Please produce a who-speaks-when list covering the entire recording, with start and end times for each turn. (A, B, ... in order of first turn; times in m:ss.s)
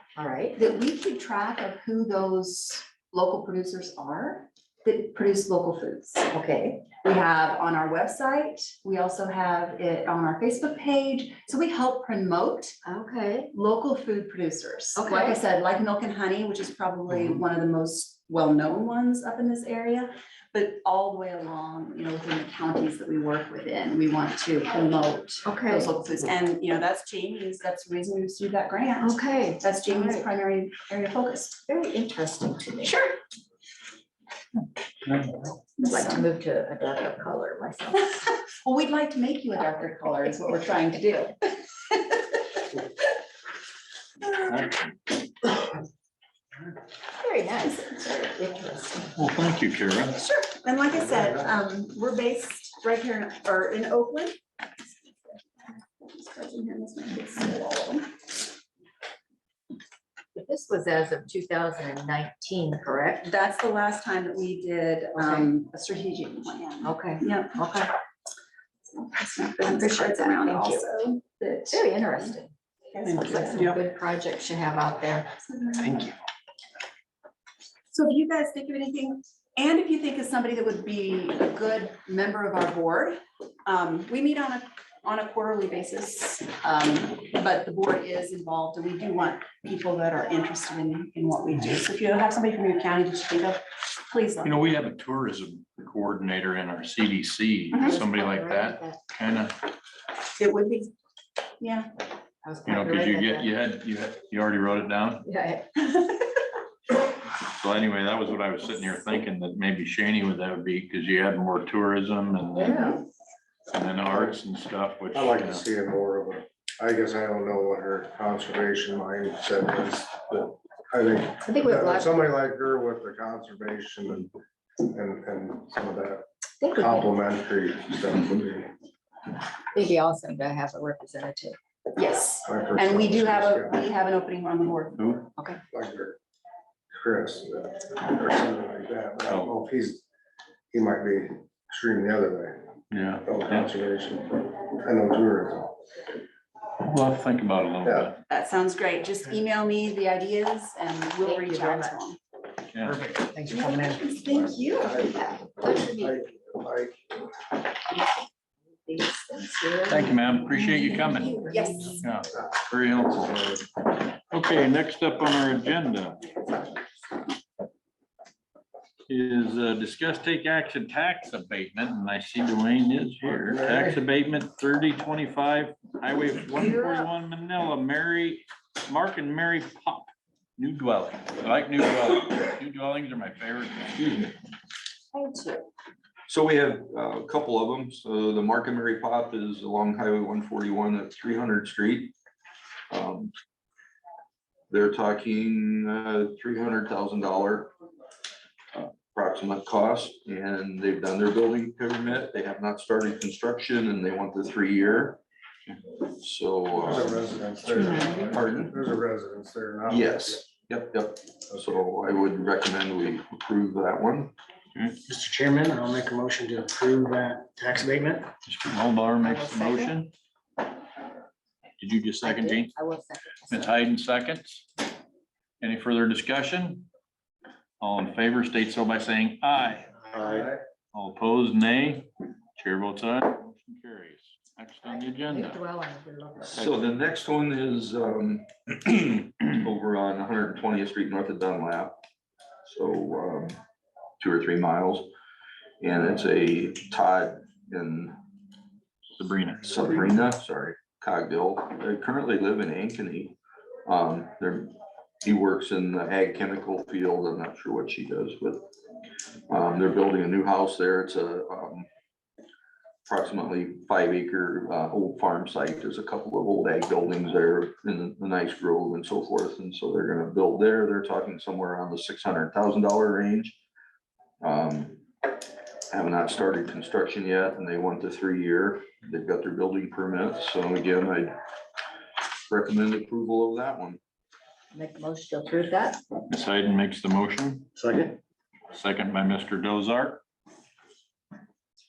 0:00.2-0:00.6 A
0:00.6-0:06.3 B
0:06.3-0:06.9 A
0:07.0-0:12.8 B
0:12.8-0:13.5 A
0:13.5-0:31.6 B
0:15.0-0:15.4 A
0:25.4-0:25.9 A
0:29.0-0:30.3 A
0:31.7-0:33.0 A
0:32.8-0:33.2 B
0:35.1-0:35.4 C
0:35.8-0:36.2 B
0:35.8-0:38.3 A
0:38.1-0:42.4 B
0:44.4-0:45.0 C
0:47.2-0:49.1 A
0:49.2-0:50.2 C
0:50.1-0:58.1 B
1:00.3-1:03.3 A
1:03.2-1:07.6 B
1:05.2-1:05.5 A
1:06.8-1:07.9 A
1:08.9-1:12.4 B
1:09.6-1:10.9 A
1:11.7-1:12.5 A
1:12.9-1:13.8 B
1:13.0-1:15.3 A
1:15.4-1:16.1 B
1:17.9-1:34.6 B
1:34.4-1:39.6 C
1:37.7-1:38.0 B
1:37.8-1:39.0 A
1:40.4-1:40.9 B
1:41.6-1:41.9 B
1:42.4-1:43.5 A
1:42.6-1:45.2 C
1:45.2-1:46.4 A
1:47.4-1:52.8 C
1:52.5-1:53.0 A
1:53.7-1:55.6 C
1:54.1-1:54.4 D
1:55.1-2:08.7 D
2:01.4-2:02.2 A
2:06.6-2:07.1 A
2:09.7-2:11.6 A
2:12.0-2:15.2 B
2:12.4-2:13.8 D
2:15.7-2:16.2 D
2:16.9-2:20.0 D
2:20.7-2:22.6 D
2:22.9-2:23.7 C
2:23.2-2:25.8 D
2:26.8-2:28.2 C
2:27.8-2:28.1 D
2:28.3-2:32.2 B
2:31.2-2:32.0 A
2:32.7-2:33.0 C
2:32.8-2:34.0 A
2:33.5-2:35.0 B
2:34.8-2:37.2 D
2:34.8-2:36.2 A
2:38.7-2:42.1 A
2:39.9-2:41.4 C
2:41.1-2:42.0 B
2:42.0-2:43.7 C
2:44.3-2:46.2 C
2:46.3-2:46.9 A
2:49.1-3:04.0 C
2:53.2-2:54.0 D
3:04.0-3:04.3 E
3:05.1-3:05.5 B
3:06.3-3:12.1 E
3:12.9-3:13.3 E
3:14.7-3:17.7 E
3:18.7-3:28.8 E
3:26.7-3:30.4 D
3:27.8-3:28.3 A
3:29.9-3:35.0 E
3:35.0-3:38.3 F
3:38.4-3:40.1 C
3:39.2-3:39.9 A
3:41.8-3:42.8 C
3:42.2-3:43.8 A
3:43.5-3:44.7 C
3:45.6-3:46.9 C
3:47.8-3:49.9 C
3:49.9-3:50.4 F
3:50.1-3:50.6 D
3:50.9-3:55.6 C
3:54.9-3:56.8 A
3:56.5-4:02.0 E
4:02.7-4:03.6 E
4:04.2-4:05.1 E
4:05.8-4:08.2 E
4:09.2-4:09.8 C
4:09.6-4:18.7 E
4:19.5-4:21.9 E
4:23.1-4:33.6 E
4:34.4-4:35.0 E
4:35.9-4:41.4 E
4:42.5-4:44.0 E
4:44.7-4:46.0 A
4:46.3-4:47.7 C
4:47.8-4:48.1 F
4:48.7-4:50.2 C